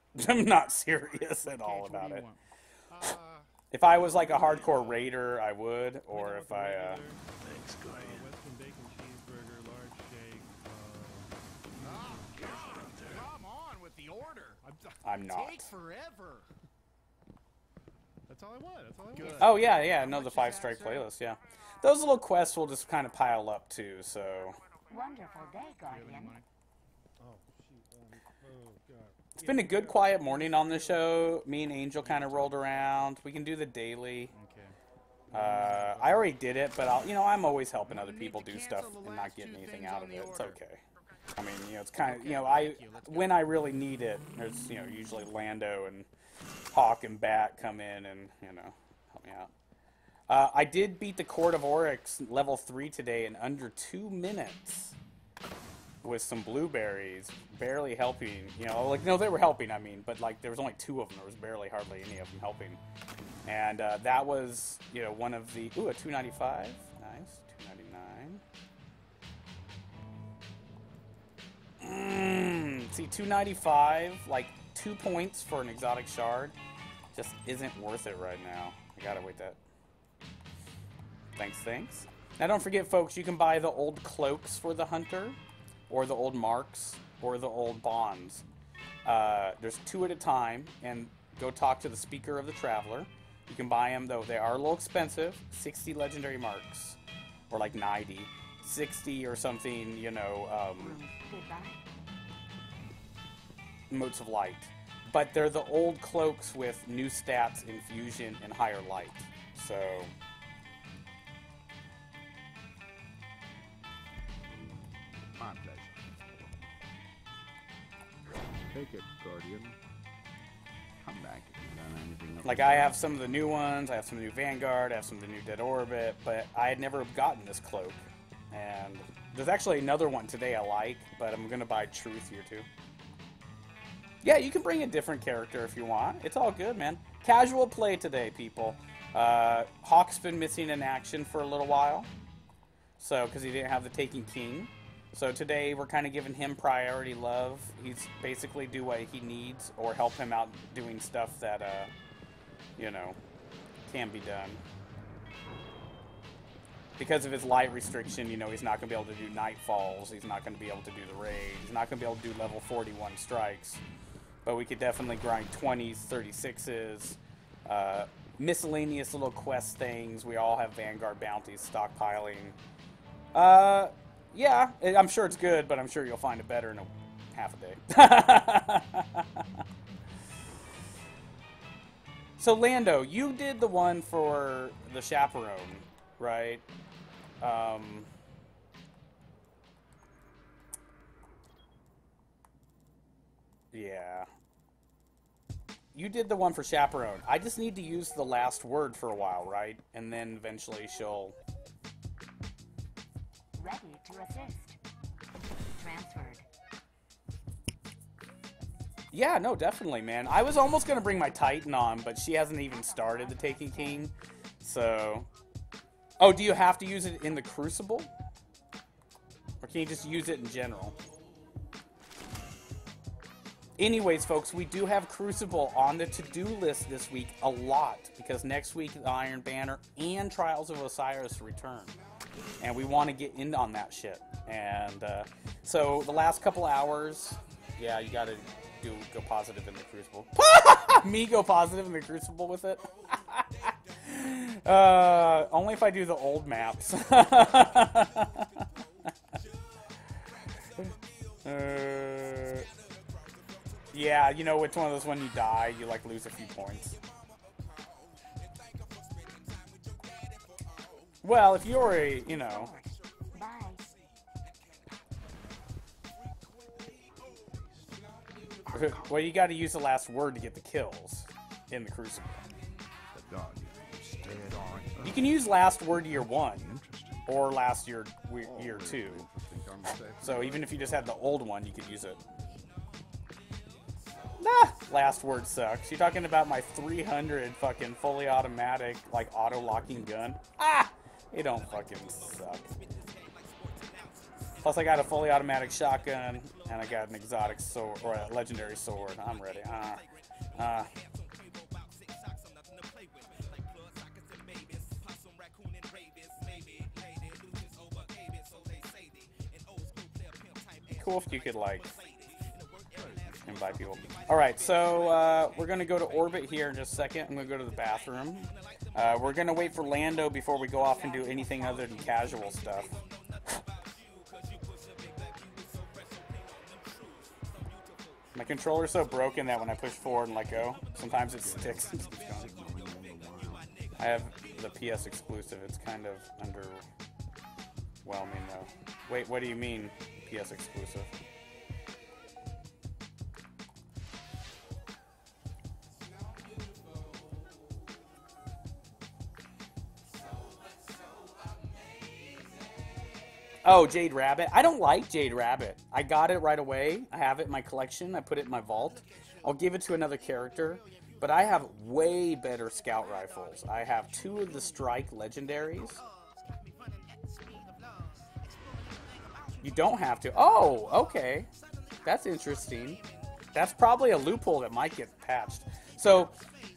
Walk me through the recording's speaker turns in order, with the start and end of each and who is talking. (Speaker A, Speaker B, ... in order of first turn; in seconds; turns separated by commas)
Speaker A: 0.1-2.2, Speaker B: 1.4-3.5, Speaker A: 3.7-7.0, Speaker C: 4.2-5.1, Speaker C: 6.1-13.2, Speaker B: 11.8-16.5, Speaker A: 15.0-15.7, Speaker C: 18.3-19.2, Speaker B: 19.1-21.1, Speaker A: 19.4-24.6, Speaker D: 24.9-26.4, Speaker B: 25.9-26.4, Speaker C: 27.2-30.9, Speaker A: 29.3-34.3, Speaker B: 34.3-34.8, Speaker A: 35.3-40.8, Speaker B: 35.4-36.1, Speaker B: 37.9-40.5, Speaker A: 41.3-46.1, Speaker B: 42.0-43.4, Speaker A: 46.7-49.5, Speaker A: 50.3-55.0, Speaker A: 56.0-62.8, Speaker A: 63.4-68.4, Speaker A: 71.8-76.5, Speaker A: 77.1-79.6, Speaker A: 81.3-85.4, Speaker A: 85.9-88.4, Speaker A: 89.0-97.0, Speaker A: 97.5-101.0, Speaker D: 100.8-101.8, Speaker A: 103.9-110.1, Speaker E: 115.3-116.5, Speaker E: 118.7-119.8, Speaker E: 121.0-123.2, Speaker A: 122.4-132.7, Speaker A: 134.2-142.1, Speaker A: 143.0-151.9, Speaker A: 152.8-153.2, Speaker A: 153.8-154.6, Speaker A: 157.0-163.8, Speaker A: 164.4-172.6, Speaker A: 173.3-179.5, Speaker A: 182.4-186.6, Speaker A: 187.4-188.1, Speaker A: 193.7-194.3, Speaker A: 195.9-201.4, Speaker D: 203.6-204.8, Speaker D: 205.8-206.5, Speaker A: 209.1-215.3, Speaker D: 212.7-214.1, Speaker A: 216.2-218.1, Speaker A: 219.6-220.9, Speaker A: 223.8-231.9, Speaker A: 232.6-248.7, Speaker A: 251.4-252.7, Speaker A: 253.9-257.0, Speaker C: 257.2-260.9, Speaker A: 261.2-262.8, Speaker D: 262.2-263.9, Speaker C: 266.4-267.1, Speaker E: 267.3-268.0, Speaker A: 268.6-272.4, Speaker E: 273.1-277.3, Speaker A: 275.0-276.7, Speaker A: 277.3-279.3, Speaker E: 278.4-280.8, Speaker A: 280.2-282.2, Speaker A: 284.4-292.7, Speaker C: 293.3-293.8, Speaker A: 294.6-300.9, Speaker C: 302.7-309.4, Speaker A: 310.9-312.0, Speaker C: 312.9-313.3, Speaker A: 313.4-323.0, Speaker D: 320.8-322.5, Speaker C: 323.7-327.9, Speaker A: 328.3-332.5, Speaker E: 331.3-333.8, Speaker A: 334.0-336.9, Speaker A: 338.0-341.1, Speaker A: 353.6-366.0, Speaker B: 366.0-369.6, Speaker A: 369.6-371.5, Speaker A: 372.0-373.0, Speaker A: 373.5-376.3